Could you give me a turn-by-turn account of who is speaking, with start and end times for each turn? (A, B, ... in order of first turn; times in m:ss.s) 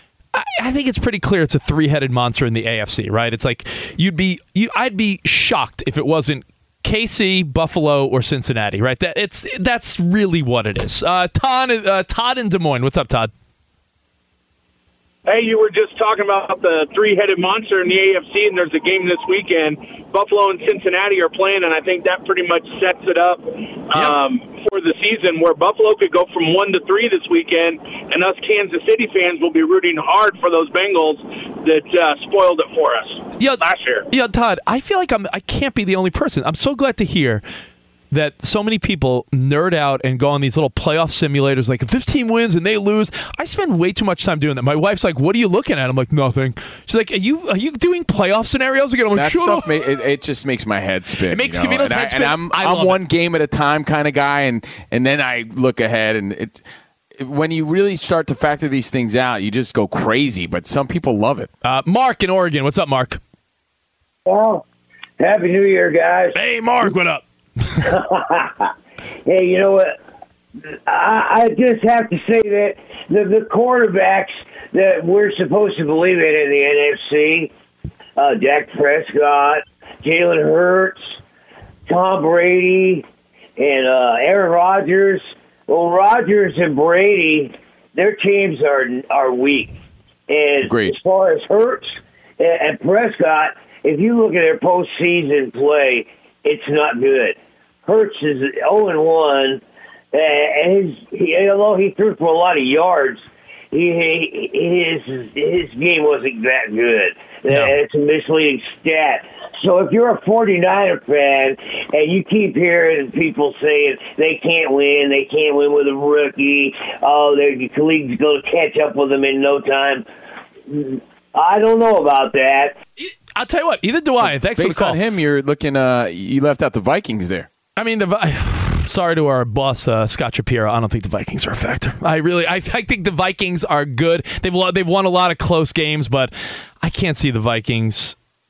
0:00.3-0:13.3 A
0:15.3-0:34.1 B
0:33.4-0:37.4 A
0:38.1-0:49.7 A
0:49.2-0:56.6 C
0:51.3-0:53.0 A
0:57.2-1:01.5 C
1:01.6-1:03.2 A
1:04.3-1:04.6 D
1:05.2-1:06.4 D
1:06.3-1:07.2 A
1:07.8-1:08.7 D
1:09.3-1:10.0 D
1:10.7-1:17.5 D
1:18.2-1:21.2 D
1:21.9-1:23.0 D
1:23.6-1:29.8 D
1:30.3-1:39.6 D
1:30.6-1:31.0 C
1:40.1-2:00.1 D
2:00.7-2:02.8 D
2:03.4-2:05.0 A
2:04.2-2:07.5 C
2:07.8-2:18.2 A